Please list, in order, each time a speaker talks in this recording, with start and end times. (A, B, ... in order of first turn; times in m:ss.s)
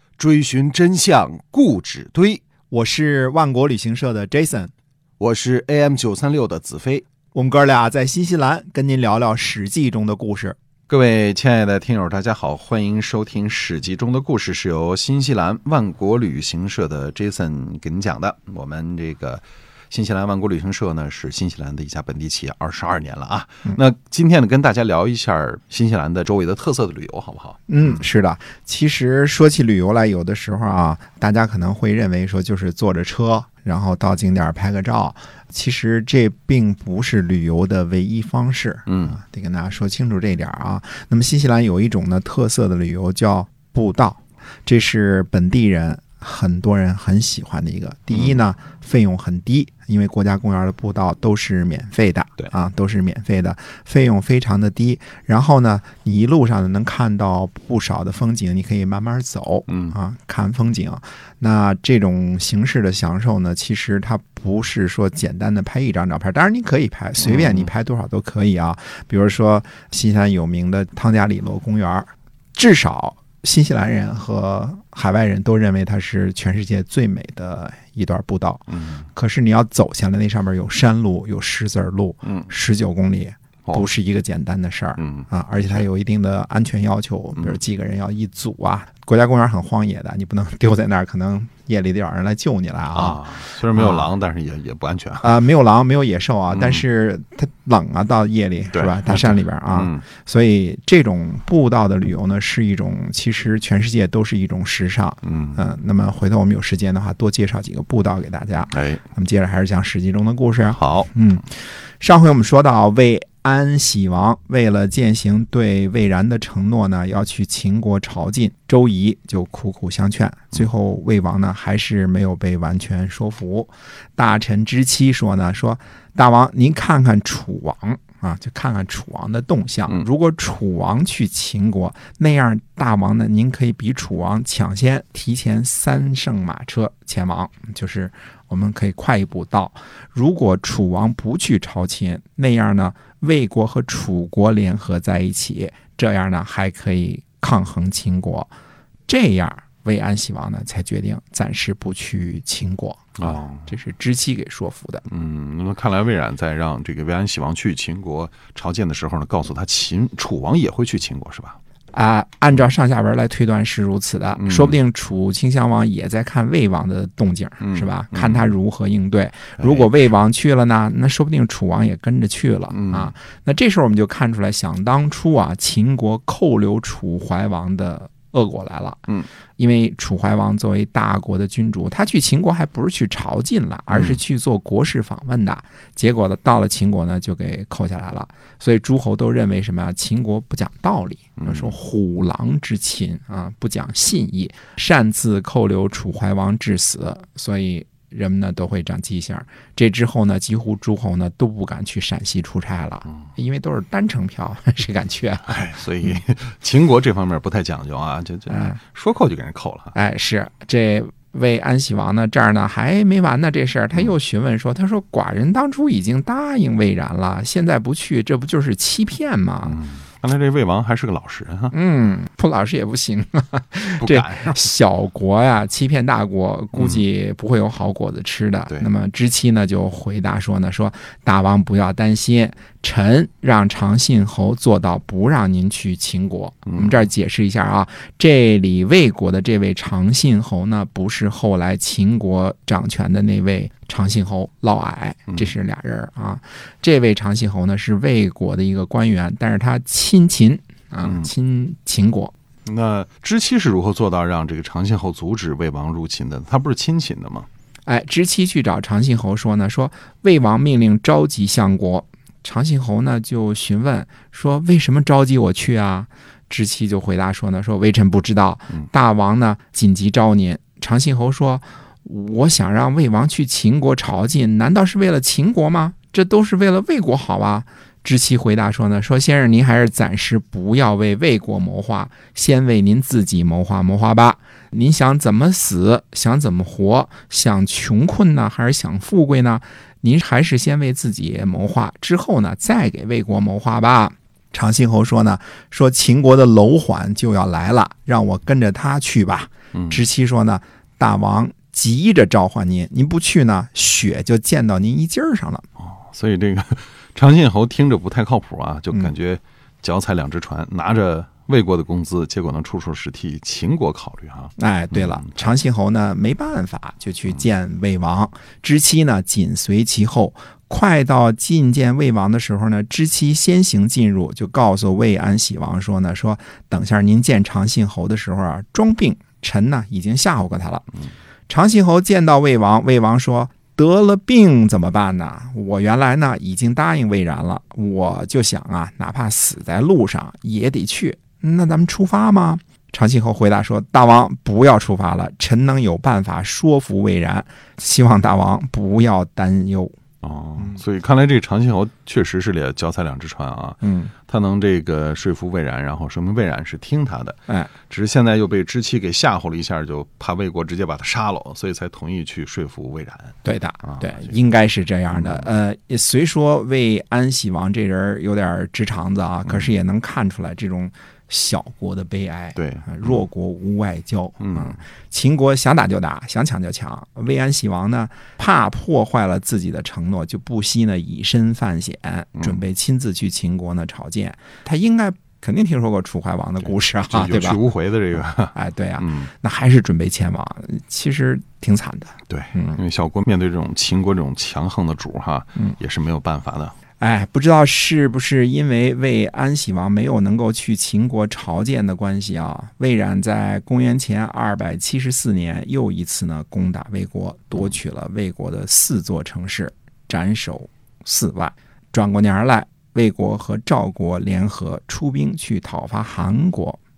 0:00.2-0:02.4 A
0:02.7-0:04.7 B
0:05.2-0:07.0 A
0:07.3-0:10.6 B
0:10.9-0:27.6 A
0:27.7-1:34.1 B
0:38.9-0:39.1 A
0:59.7-1:00.0 A
1:07.2-1:07.7 A
1:18.7-1:19.0 A
1:22.2-1:22.5 A
1:25.0-1:25.8 A
1:32.9-1:35.3 A
1:35.2-2:28.5 B
1:36.5-1:36.8 A
1:38.7-1:40.0 A
1:45.2-1:45.6 A
1:48.7-1:49.0 A
1:50.7-1:51.1 A
2:29.1-2:35.0 B
2:33.2-2:33.7 A
2:35.1-2:41.6 A
2:41.9-3:26.2 B
2:44.4-2:44.8 A
2:47.6-2:48.5 A
2:49.6-2:49.9 A
2:52.7-2:53.1 A
3:03.9-3:04.2 A
3:11.4-3:11.8 A
3:25.5-3:29.9 A
3:28.5-3:28.8 B
3:29.9-3:39.8 B
3:39.7-3:41.7 A
3:41.7-4:12.3 B
3:43.9-3:44.7 A
3:46.7-3:47.0 A
3:56.7-3:57.0 A
4:11.0-4:11.3 A
4:12.7-4:17.5 A
4:17.9-5:05.6 B
4:59.8-5:00.0 A
5:05.8-5:15.3 A
5:14.6-5:30.9 B
5:31.5-5:49.9 B
5:50.2-6:04.2 A
5:53.8-5:54.1 B
6:03.4-6:27.6 B
6:05.1-6:05.5 A
6:12.6-6:13.2 A
6:14.4-6:14.8 A
6:27.1-6:29.3 A
6:28.5-6:32.8 B
6:32.3-6:36.7 A
6:37.0-6:56.8 B